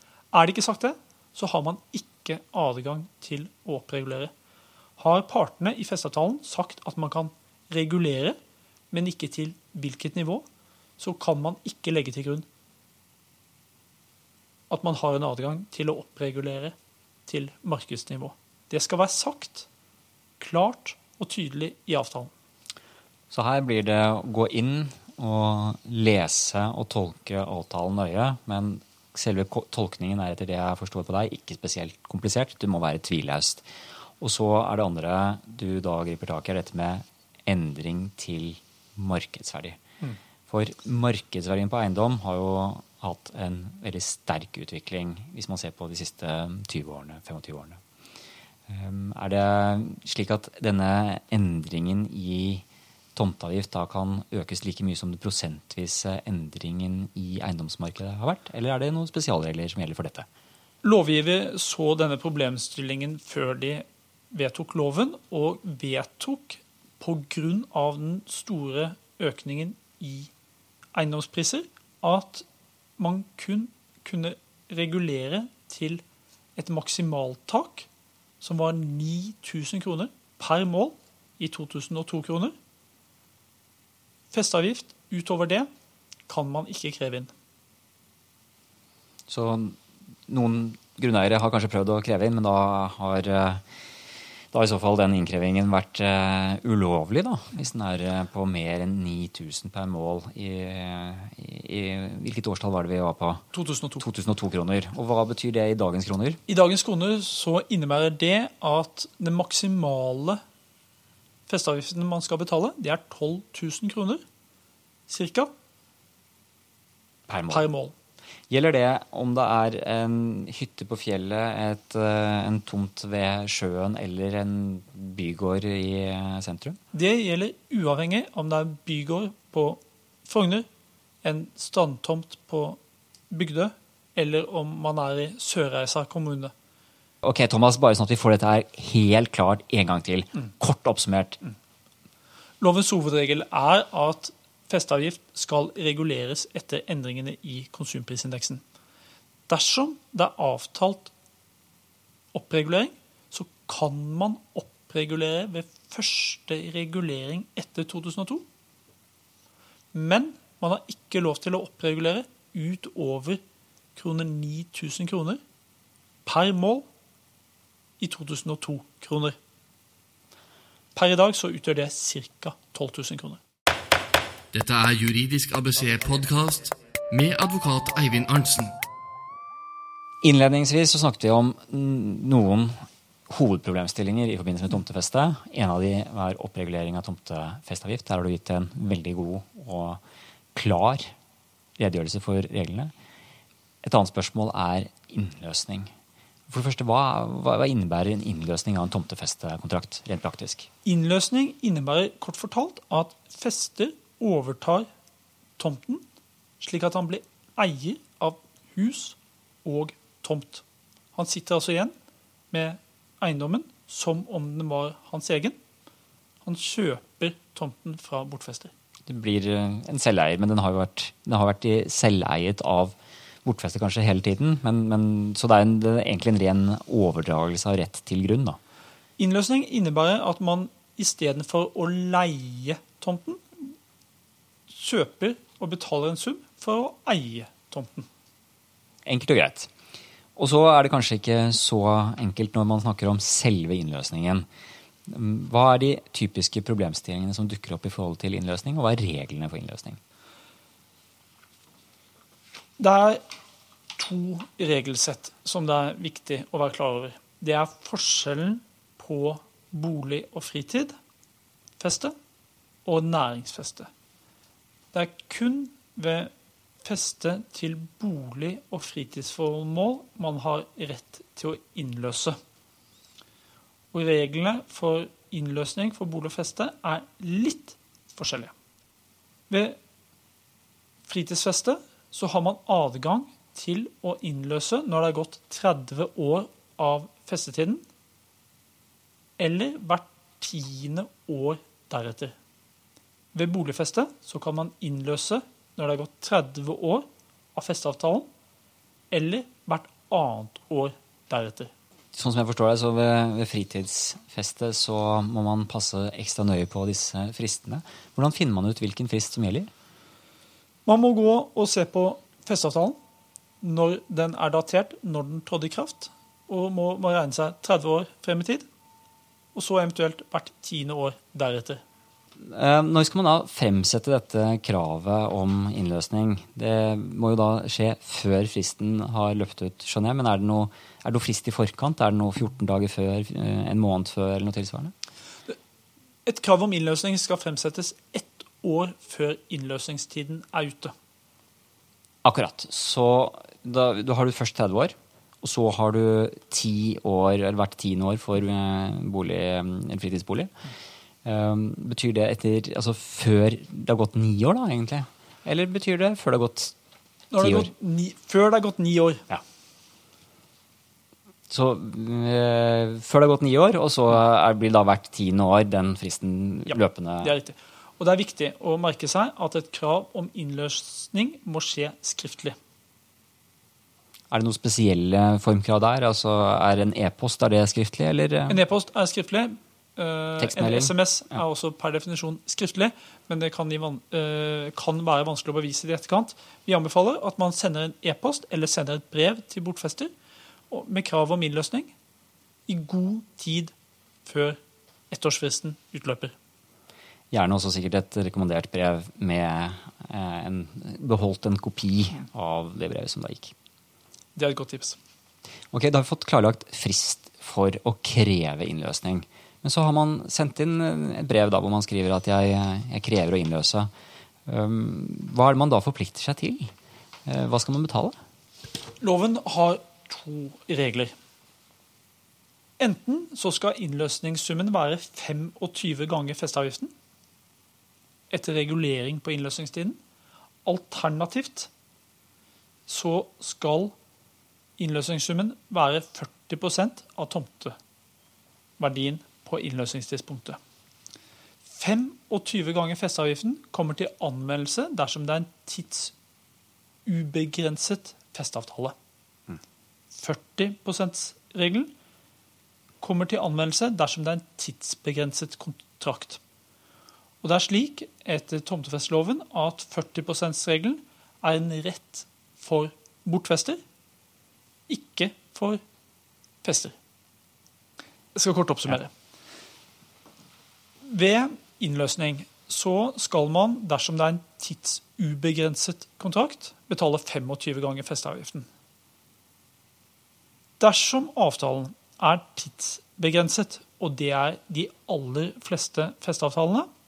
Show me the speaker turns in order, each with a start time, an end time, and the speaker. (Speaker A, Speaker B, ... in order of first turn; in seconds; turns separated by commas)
Speaker A: 0.3-4.3, Speaker A: 5.0-8.4, Speaker A: 8.9-10.4, Speaker A: 11.0-12.4, Speaker A: 14.7-16.7, Speaker A: 17.3-19.7, Speaker A: 20.4-22.3, Speaker B: 23.3-33.7, Speaker B: 34.2-39.8, Speaker B: 40.5-47.8, Speaker B: 48.7-52.6, Speaker B: 53.1-60.2, Speaker A: 60.8-70.3, Speaker A: 70.9-72.4, Speaker A: 73.0-76.0, Speaker A: 76.5-77.9, Speaker A: 78.4-82.5, Speaker A: 84.3-85.7, Speaker A: 86.3-87.3, Speaker B: 89.3-89.8, Speaker B: 90.3-93.6, Speaker B: 94.5-103.5, Speaker A: 103.5-104.0, Speaker B: 104.0-106.4, Speaker A: 106.5-110.4, Speaker A: 111.5-114.2, Speaker A: 115.1-115.5, Speaker B: 117.3-117.7, Speaker A: 117.5-117.9, Speaker B: 118.5-126.8, Speaker A: 126.9-130.7, Speaker A: 131.2-132.8, Speaker A: 133.3-136.5, Speaker B: 137.2-141.4, Speaker A: 142.6-148.6, Speaker A: 149.5-151.1, Speaker A: 152.3-158.4, Speaker A: 159.9-163.4, Speaker A: 163.9-165.4, Speaker A: 166.2-166.8, Speaker A: 168.0-169.3, Speaker A: 170.9-173.4, Speaker C: 174.5-178.7, Speaker B: 180.2-182.8, Speaker B: 183.3-190.0, Speaker B: 190.5-191.1, Speaker B: 191.8-192.9, Speaker B: 193.8-195.9, Speaker B: 196.5-200.7, Speaker A: 200.8-204.9, Speaker A: 205.6-206.0, Speaker A: 206.6-210.6, Speaker A: 211.1-211.9, Speaker A: 212.5-215.6, Speaker A: 216.4-218.7, Speaker B: 219.1-228.6, Speaker A: 229.2-233.7, Speaker A: 234.7-238.1, Speaker B: 239.0-239.7, Speaker B: 240.3-244.4, Speaker B: 245.1-250.0, Speaker A: 252.8-253.2, Speaker A: 253.9-260.9, Speaker A: 261.8-262.1, Speaker A: 262.8-263.9, Speaker A: 264.9-266.3, Speaker A: 266.8-272.4, Speaker A: 273.9-278.5, Speaker A: 279.5-279.8, Speaker A: 281.1-287.8, Speaker A: 289.4-292.3, Speaker A: 293.3-298.3, Speaker A: 299.1-301.7, Speaker B: 302.1-309.7, Speaker A: 310.9-313.0, Speaker A: 313.6-318.6, Speaker A: 319.5-321.8, Speaker B: 322.4-334.9, Speaker A: 336.2-340.9, Speaker B: 342.2-350.5, Speaker B: 351.2-356.7, Speaker A: 357.3-359.2, Speaker B: 357.4-357.7, Speaker B: 361.5-367.3, Speaker A: 366.7-372.6, Speaker B: 374.3-378.6, Speaker A: 378.5-390.1, Speaker B: 380.4-380.9, Speaker A: 390.7-391.9, Speaker A: 392.7-393.7, Speaker A: 394.2-396.3, Speaker B: 397.3-403.5, Speaker A: 404.4-405.0, Speaker B: 405.7-413.9, Speaker B: 414.4-416.7, Speaker B: 417.2-418.1, Speaker A: 419.0-421.1, Speaker A: 422.8-426.9, Speaker A: 428.3-430.0, Speaker A: 430.6-431.7, Speaker A: 432.9-433.9, Speaker A: 434.8-437.8, Speaker A: 438.8-440.6, Speaker A: 441.6-446.1, Speaker A: 447.1-448.9, Speaker A: 450.1-451.9, Speaker A: 453.0-456.4, Speaker A: 457.4-463.8, Speaker A: 464.9-465.8, Speaker A: 466.6-466.9, Speaker A: 468.3-469.1, Speaker A: 471.1-478.7, Speaker A: 480.8-486.9